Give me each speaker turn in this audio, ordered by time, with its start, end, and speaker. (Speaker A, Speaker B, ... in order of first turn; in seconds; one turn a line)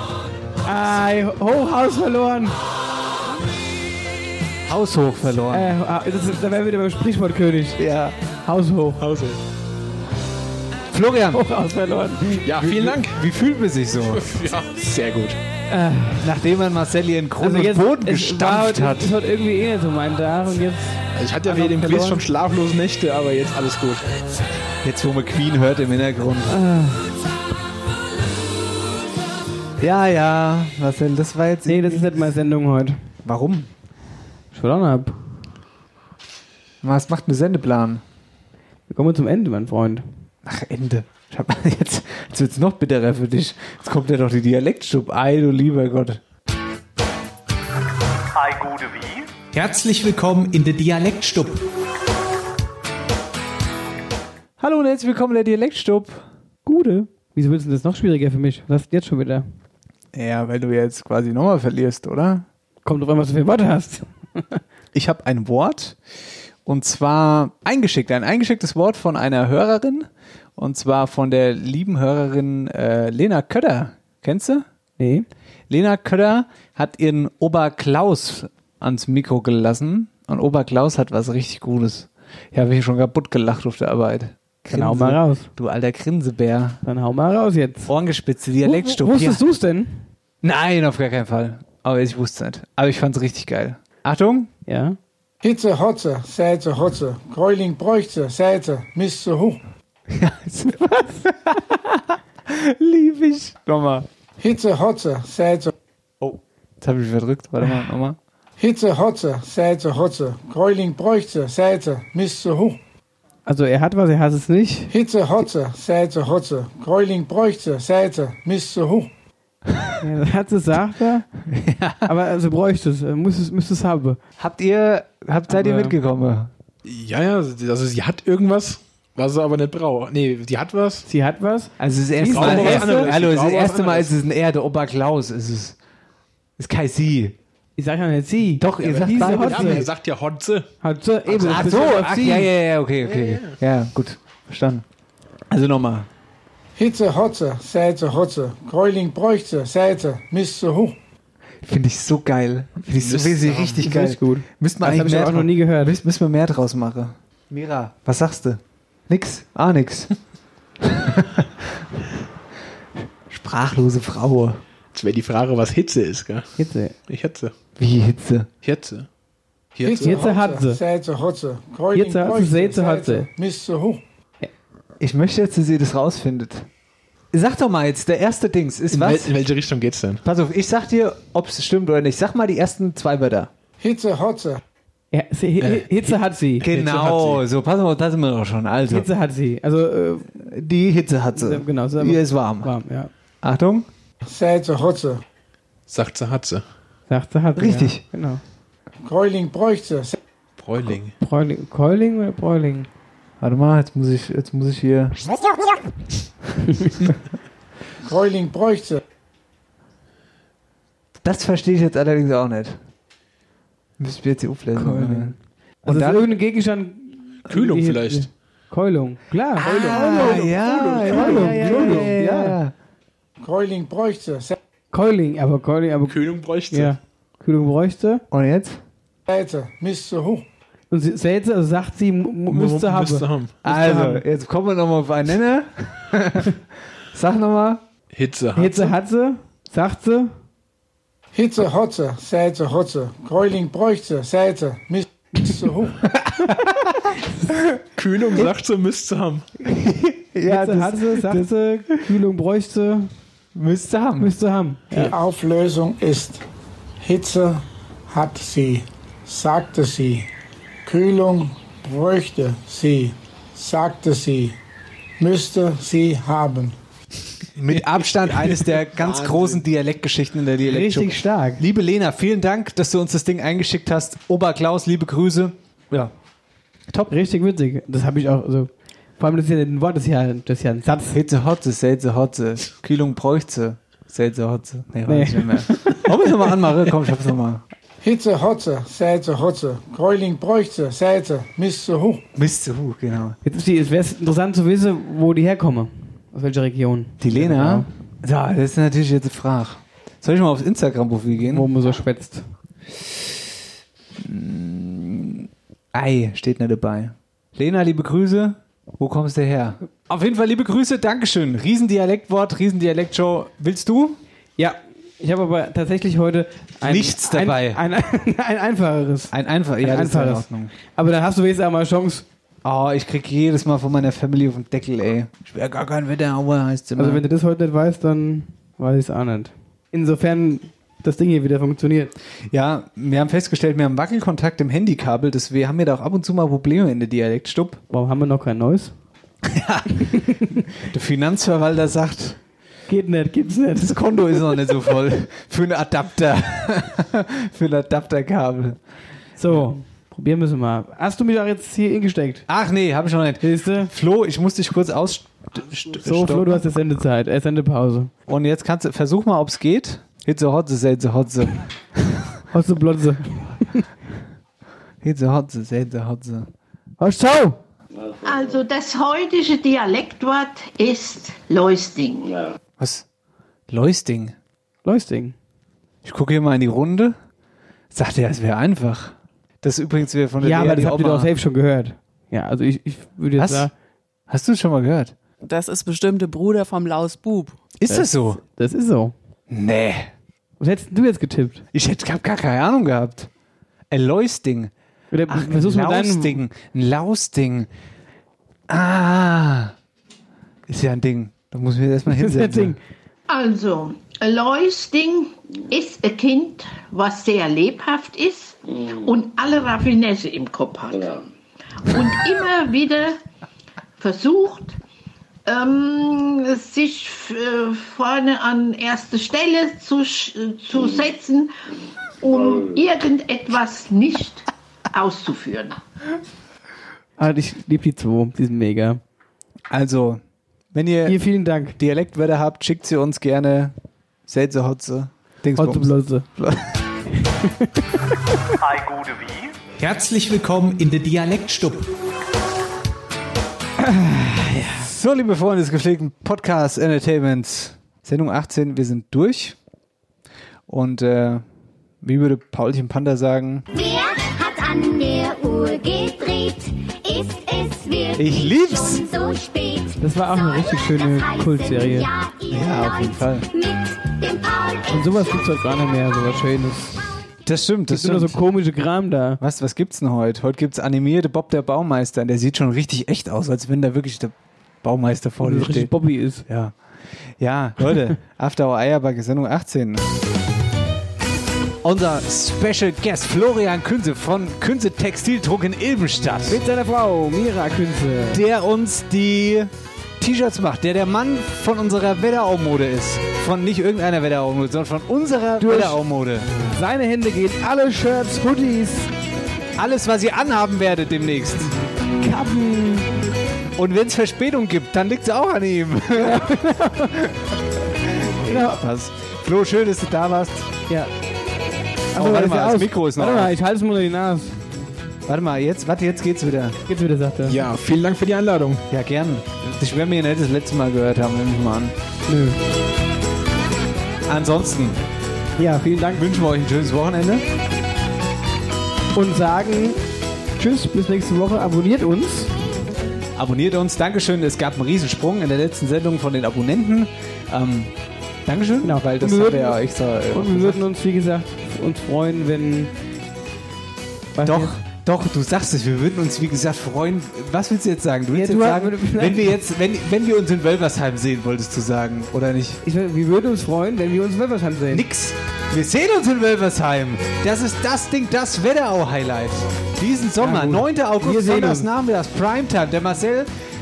Speaker A: 0.7-2.6
Speaker B: 4.7-5.7
Speaker A: 5.5-7.8
Speaker B: 7.8-8.2
Speaker A: 8.4-9.0
Speaker C: 9.0-9.4
Speaker B: 10.9-11.4
Speaker A: 11.3-12.5
Speaker C: 12.4-13.2
Speaker B: 12.5-14.3
Speaker C: 14.0-15.4
Speaker A: 15.7-16.3
Speaker B: 16.2-19.2
Speaker A: 17.4-22.2
Speaker C: 21.1-24.2
Speaker B: 24.8-26.6
Speaker A: 26.5-27.1
Speaker B: 29.8-32.3
Speaker A: 31.7-33.0
Speaker B: 33.2-33.7
Speaker A: 34.5-35.2
Speaker B: 36.8-38.0
Speaker A: 38.9-40.0
Speaker B: 40.5-46.2
Speaker B: 48.5-49.2
Speaker D: 49.5-51.6
Speaker B: 54.6-56.3
Speaker A: 56.6-59.5
Speaker B: 60.1-62.5
Speaker A: 62.9-64.6
Speaker B: 64.9-66.0
Speaker B: 66.7-74.7
Speaker A: 75.0-75.3
Speaker B: 75.7-86.8
Speaker A: 84.7-85.5
Speaker A: 86.8-87.9
Speaker B: 87.9-89.4
Speaker A: 88.6-90.0
Speaker B: 90.4-94.5
Speaker A: 94.7-95.0
Speaker E: 95.4-99.6
Speaker B: 100.1-104.1
Speaker A: 100.9-101.2
Speaker E: 104.4-105.7
Speaker B: 106.2-108.2
Speaker E: 108.6-112.8
Speaker A: 113.5-114.9
Speaker E: 114.9-119.1
Speaker A: 120.0-121.3
Speaker B: 121.5-122.1
Speaker A: 122.1-124.2
Speaker B: 124.4-126.5
Speaker A: 125.5-126.0
Speaker C: 126.8-131.1
Speaker A: 131.1-133.1
Speaker B: 131.8-135.8
Speaker C: 132.2-134.2
Speaker B: 136.6-137.4
Speaker A: 137.8-139.9
Speaker B: 138.6-139.9
Speaker C: 138.8-140.7
Speaker A: 140.8-142.5
Speaker B: 141.3-144.8
Speaker C: 143.0-143.6
Speaker B: 145.5-146.1
Speaker E: 146.8-150.9
Speaker B: 151.6-160.1
Speaker C: 152.8-153.8
Speaker A: 153.8-156.0
Speaker B: 160.8-161.8
Speaker B: 163.3-164.6
Speaker C: 164.9-167.5
Speaker A: 166.6-166.9
Speaker B: 167.8-168.5
Speaker C: 168.6-169.1
Speaker C: 169.8-170.2
Speaker E: 169.8-174.0
Speaker A: 170.0-170.8
Speaker A: 171.9-173.3
Speaker B: 175.0-176.7
Speaker B: 177.3-179.4
Speaker C: 178.9-180.2
Speaker B: 180.2-183.5
Speaker E: 183.8-184.6
Speaker A: 185.1-186.8
Speaker C: 185.6-186.2
Speaker B: 186.6-189.1
Speaker C: 186.7-187.4
Speaker A: 188.9-190.4
Speaker B: 190.4-192.7
Speaker A: 191.3-193.1
Speaker B: 193.4-193.9
Speaker E: 194.2-195.2
Speaker C: 195.9-196.6
Speaker A: 197.1-198.4
Speaker B: 197.6-198.0
Speaker E: 199.1-200.2
Speaker C: 200.6-201.2
Speaker A: 201.2-202.9
Speaker B: 203.4-205.2
Speaker E: 208.0-209.0
Speaker B: 211.2-212.8
Speaker B: 214.0-216.4
Speaker A: 214.8-222.6
Speaker C: 217.5-218.3
Speaker B: 219.6-222.7
Speaker C: 219.6-222.1
Speaker E: 223.4-224.6
Speaker A: 224.9-228.2
Speaker C: 226.1-227.0
Speaker B: 228.3-228.8
Speaker E: 229.3-230.5
Speaker A: 230.9-234.2
Speaker C: 232.5-233.6
Speaker B: 233.6-236.6
Speaker B: 237.1-237.8
Speaker C: 238.1-239.0
Speaker A: 238.6-240.3
Speaker E: 241.3-246.0
Speaker B: 246.1-247.8
Speaker C: 248.0-249.5
Speaker B: 249.6-251.6
Speaker A: 250.4-253.1
Speaker B: 253.6-254.3
Speaker A: 254.2-255.2
Speaker E: 254.9-256.4
Speaker E: 257.0-260.3
Speaker E: 260.8-264.6
Speaker E: 265.2-266.8
Speaker B: 267.6-276.1
Speaker C: 267.7-269.6
Speaker A: 270.6-271.6
Speaker A: 277.1-281.2
Speaker B: 281.1-287.6
Speaker A: 285.1-286.1
Speaker E: 288.0-292.2
Speaker B: 292.4-293.4
Speaker A: 293.4-297.9
Speaker B: 297.2-301.7
Speaker A: 301.5-302.5
Speaker B: 304.2-314.2
Speaker A: 314.6-322.2
Speaker B: 316.8-317.8
Speaker B: 319.3-320.7
Speaker B: 322.6-327.2
Speaker A: 327.0-332.1
Speaker B: 332.5-337.8
Speaker A: 337.9-338.9
Speaker B: 339.4-342.4
Speaker A: 340.0-340.6
Speaker A: 342.9-344.7
Speaker B: 343.8-348.8
Speaker A: 349.4-352.5
Speaker B: 352.5-356.6
Speaker A: 353.4-353.9
Speaker A: 356.0-358.1
Speaker B: 358.3-362.3
Speaker A: 362.5-363.9
Speaker B: 365.0-366.5
Speaker A: 367.0-367.6
Speaker F: 368.2-372.5
Speaker B: 372.8-373.1
Speaker B: 373.7-374.4
Speaker A: 374.9-375.4
Speaker B: 376.0-377.2
Speaker B: 377.9-381.3
Speaker A: 380.4-383.7
Speaker B: 383.4-383.7
Speaker B: 384.3-385.1
Speaker G: 385.4-387.6
Speaker B: 387.8-388.4
Speaker A: 387.9-389.1
Speaker B: 389.5-390.1
Speaker A: 390.6-391.6
Speaker B: 391.7-393.3
Speaker B: 393.9-394.7
Speaker A: 395.1-396.4
Speaker B: 395.3-397.7
Speaker B: 398.7-399.8
Speaker B: 400.7-402.8
Speaker A: 402.1-402.8
Speaker F: 403.3-411.3
Speaker F: 411.9-413.2
Speaker F: 414.0-414.8
Speaker F: 415.5-421.5
Speaker F: 422.2-425.8
Speaker A: 427.2-429.0
Speaker B: 429.7-430.2
Speaker B: 430.7-431.2
Speaker A: 431.1-431.8
Speaker B: 431.8-433.7
Speaker B: 434.3-436.7
Speaker A: 435.6-436.3
Speaker A: 437.1-437.8
Speaker B: 438.7-439.5
Speaker D: 439.8-441.9
Speaker A: 443.8-444.9
Speaker B: 444.8-449.6
Speaker B: 450.7-451.4
Speaker B: 452.0-453.7
Speaker H: 453.7-465.5
Speaker B: 458.2-459.0
Speaker A: 460.0-462.1
Speaker B: 462.5-463.5
Speaker A: 464.9-467.2
Speaker B: 467.4-468.4
Speaker A: 467.9-469.4
Speaker B: 469.4-475.9
Speaker A: 475.4-476.4
Speaker B: 476.5-476.8
Speaker B: 477.4-480.1
Speaker B: 481.8-486.6
Speaker A: 486.5-488.4
Speaker B: 488.3-496.5
Speaker A: 495.6-496.0
Speaker A: 496.7-499.1
Speaker B: 499.8-501.8
Speaker A: 502.2-503.1
Speaker B: 503.8-507.4
Speaker A: 506.2-507.1
Speaker B: 508.1-510.7
Speaker A: 508.4-508.8
Speaker B: 512.1-513.5
Speaker A: 512.1-514.6
Speaker B: 515.3-516.8
Speaker A: 516.9-517.6
Speaker C: 517.5-518.9
Speaker B: 518.9-522.0
Speaker A: 522.3-522.6
Speaker B: 524.3-525.0
Speaker A: 525.6-526.3
Speaker B: 526.1-527.5
Speaker A: 529.1-530.0
Speaker A: 530.6-532.5
Speaker B: 533.4-537.9
Speaker B: 538.5-540.8
Speaker A: 538.8-542.9
Speaker A: 544.4-544.7
Speaker B: 544.4-552.8
Speaker A: 548.3-549.6
Speaker A: 552.8-555.1
Speaker B: 554.9-563.5
Speaker A: 560.4-561.9